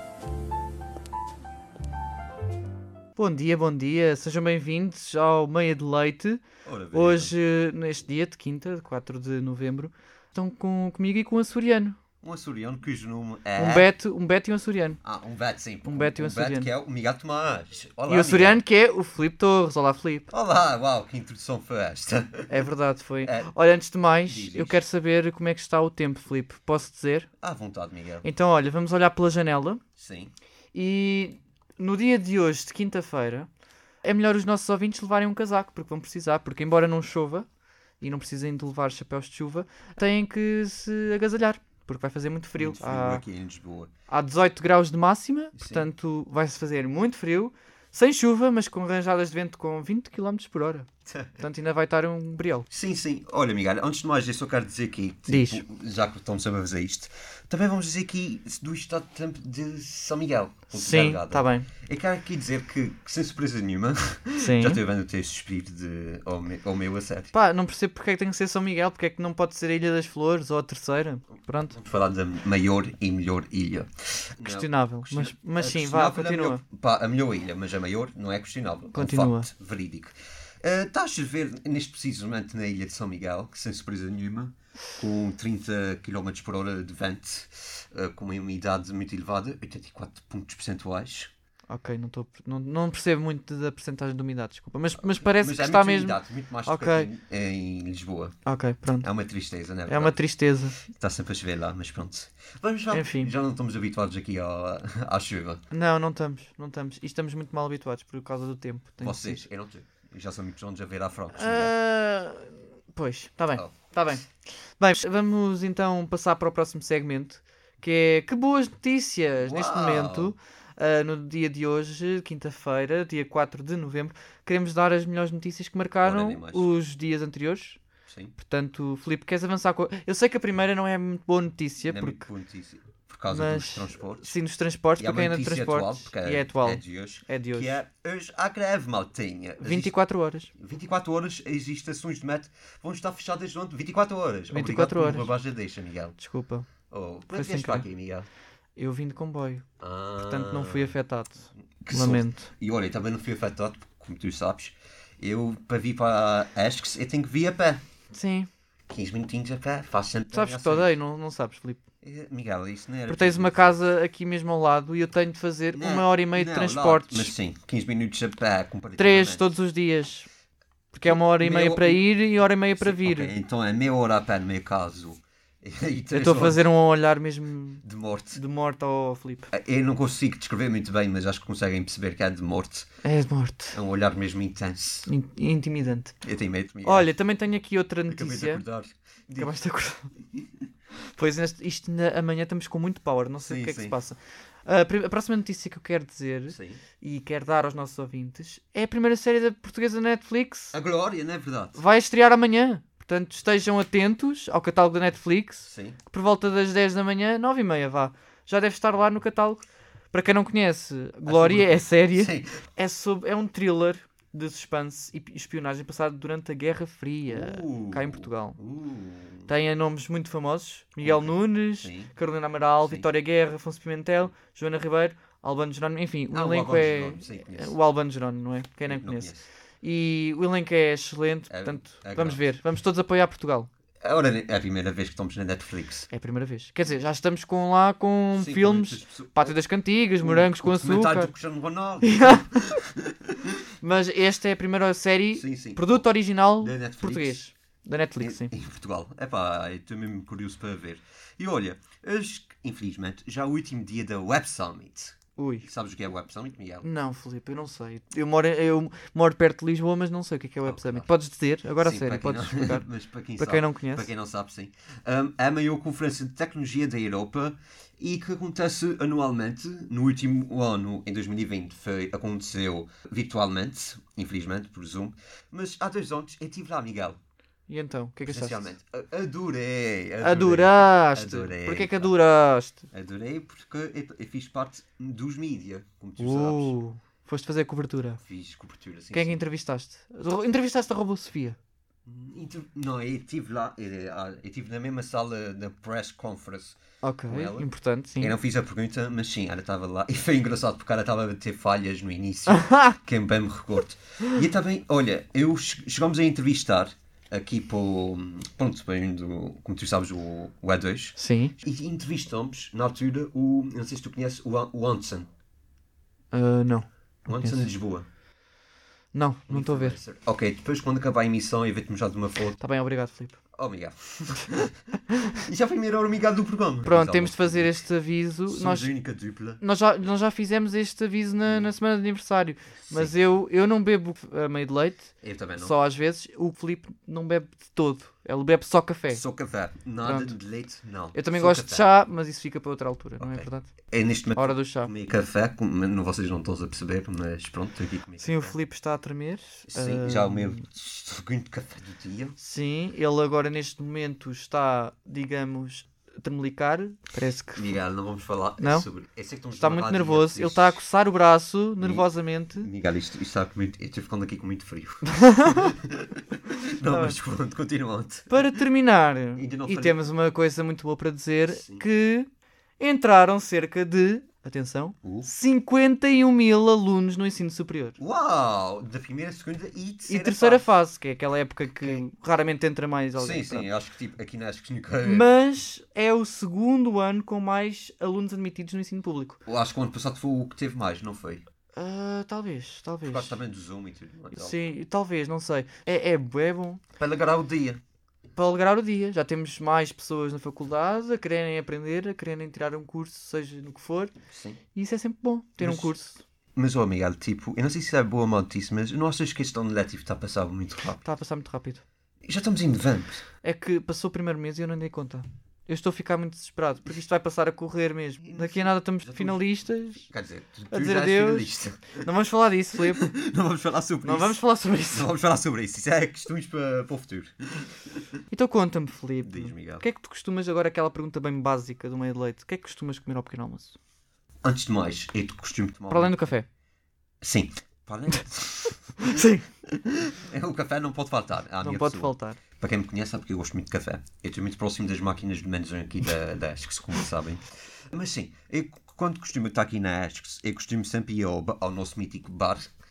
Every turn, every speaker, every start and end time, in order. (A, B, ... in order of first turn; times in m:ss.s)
0:03.2-0:06.4 A
0:06.6-0:07.3 B
0:06.9-0:12.0 A
0:12.2-0:13.9 B
0:13.6-0:15.0 A
0:15.0-0:18.6 B
0:15.8-0:16.7 A
0:18.1-0:20.3 A
0:20.3-0:22.6 B
0:22.5-0:27.3 A
0:23.2-0:23.5 B
0:24.2-0:24.8 B
0:27.4-0:28.2 B
0:28.2-0:29.8 A
0:30.0-0:30.3 B
0:30.7-0:33.5 A
0:34.0-0:37.4 A
0:38.0-0:43.2 A
0:42.6-0:43.9 B
0:44.1-0:50.9 A
0:45.6-0:45.9 B
0:51.1-0:51.4 B
0:51.4-0:52.6 A
0:52.7-1:07.3 B
0:55.3-0:55.6 A
1:00.7-1:01.7 A
1:04.4-1:04.8 A
1:07.3-1:11.8 A
1:11.7-1:31.3 B
1:14.4-1:16.6 A
1:18.9-1:19.5 A
1:31.7-1:37.1 A
1:35.0-1:38.4 B
1:38.4-1:39.1 A
1:39.0-1:40.2 B
1:39.9-1:40.8 A
1:40.8-1:45.6 B
1:42.9-1:43.3 A
1:45.7-1:49.4 A
1:49.0-1:51.7 B
1:51.4-1:54.2 A
1:54.8-2:07.8 A
1:59.4-2:00.3 B
2:06.0-2:06.8 B
2:08.1-2:08.4 B
2:08.4-2:12.2 A
2:11.8-2:14.3 B
2:13.3-2:17.8 A
2:15.0-2:19.9 B
2:19.6-2:20.5 A
2:20.5-2:26.2 B
2:24.5-2:25.3 A
2:26.2-2:26.6 A
2:26.9-2:28.2 B
2:27.3-2:27.8 A
2:28.8-2:29.6 A
2:29.8-2:30.9 B
2:30.2-2:32.4 A
2:31.8-2:37.8 B
2:38.1-2:38.5 A
2:38.9-2:40.9 B
2:40.3-2:41.8 A
2:42.0-2:43.7 B
2:43.1-2:47.3 A
2:45.7-2:49.5 B
2:49.0-2:50.3 A
2:50.9-2:53.3 A
2:51.0-2:52.1 B
2:52.8-2:56.6 B
2:56.1-2:57.8 A
2:57.8-2:58.4 B
2:58.3-2:59.5 A
2:59.5-3:02.9 B
3:03.0-3:03.8 A
3:03.7-3:05.1 B
3:05.1-3:06.1 A
3:06.2-3:07.1 B
3:06.8-3:08.6 A
3:08.1-3:09.5 B
3:09.3-3:10.1 A
3:11.2-3:20.7 A
3:13.4-3:14.0 B
3:16.5-3:16.8 B
3:20.7-3:21.8 B
3:21.7-3:38.6 A
3:25.6-3:26.0 B
3:31.2-3:32.6 B
3:37.3-3:39.5 B
3:39.5-3:49.3 A
3:41.0-3:42.1 B
3:46.3-3:47.7 B
3:48.9-3:49.4 B
3:49.8-3:53.7 A
3:51.5-3:52.4 B
3:54.0-3:56.1 B
3:56.1-4:01.3 A
3:58.3-3:59.6 B
4:00.2-4:03.5 B
4:02.0-4:02.8 A
4:03.8-4:08.5 A
4:05.3-4:06.1 B
4:06.6-4:07.4 B
4:08.2-4:16.9 B
4:15.4-4:15.7 A
4:16.8-4:22.8 A
4:20.6-4:21.1 B
4:21.8-4:37.2 B
4:23.4-4:24.1 A
4:37.7-4:38.7 A
4:38.3-4:42.1 B
4:40.2-4:42.8 A
4:42.9-4:46.7 B
4:46.2-4:48.2 A
4:48.2-4:49.4 B
4:49.1-4:51.6 A
4:52.0-5:15.3 B
4:57.0-4:58.3 A
5:02.5-5:03.0 A
5:11.2-5:11.5 A
5:16.3-5:17.7 A
5:17.2-5:18.0 B
5:19.1-5:20.0 A
5:19.5-5:22.6 B
5:22.6-5:23.4 A
5:23.5-5:24.7 B
5:25.4-5:27.9 B
5:26.8-5:28.9 A
5:28.5-5:29.6 B
5:29.6-5:39.2 A
5:32.9-5:33.1 B
5:35.2-5:35.8 B
5:39.1-5:41.9 B
5:40.0-5:40.3 A
5:41.1-5:43.7 A
5:43.2-5:48.6 B
5:44.4-5:44.9 A
5:48.2-5:50.6 A
5:49.7-5:52.4 B
5:52.4-5:57.7 A
5:57.6-6:00.8 B
5:58.6-5:58.8 A
5:59.6-6:02.7 A
6:01.8-6:02.1 B
6:02.6-6:08.6 B
6:05.1-6:05.7 A
6:06.9-6:07.2 A
6:08.3-6:12.3 A
6:09.4-6:10.0 B
6:11.5-6:11.8 B
6:12.8-6:18.0 A
6:15.0-6:15.3 B
6:18.0-6:20.6 B
6:20.1-6:23.7 A
6:23.2-6:25.3 B
6:25.0-6:29.4 A
6:29.4-6:31.4 B
6:31.8-6:33.3 A
6:33.0-6:34.6 B
6:34.3-6:36.8 A
6:37.0-6:37.8 B
6:38.4-6:44.1 A
6:44.3-6:44.6 B
6:44.7-6:46.2 A
6:45.6-6:45.9 B
6:46.6-6:51.0 B
6:51.0-6:51.8 A
6:52.2-6:53.3 B
6:53.4-7:00.0 A
6:58.2-7:02.0 B
7:00.7-7:03.0 A
7:02.9-7:08.0 B
7:04.0-7:05.1 A
7:08.3-7:13.8 A
7:09.2-7:09.8 B
7:14.4-7:16.2 B
7:15.9-7:16.4 A
7:17.2-7:32.7 B
7:19.0-7:19.4 A
7:21.6-7:22.4 A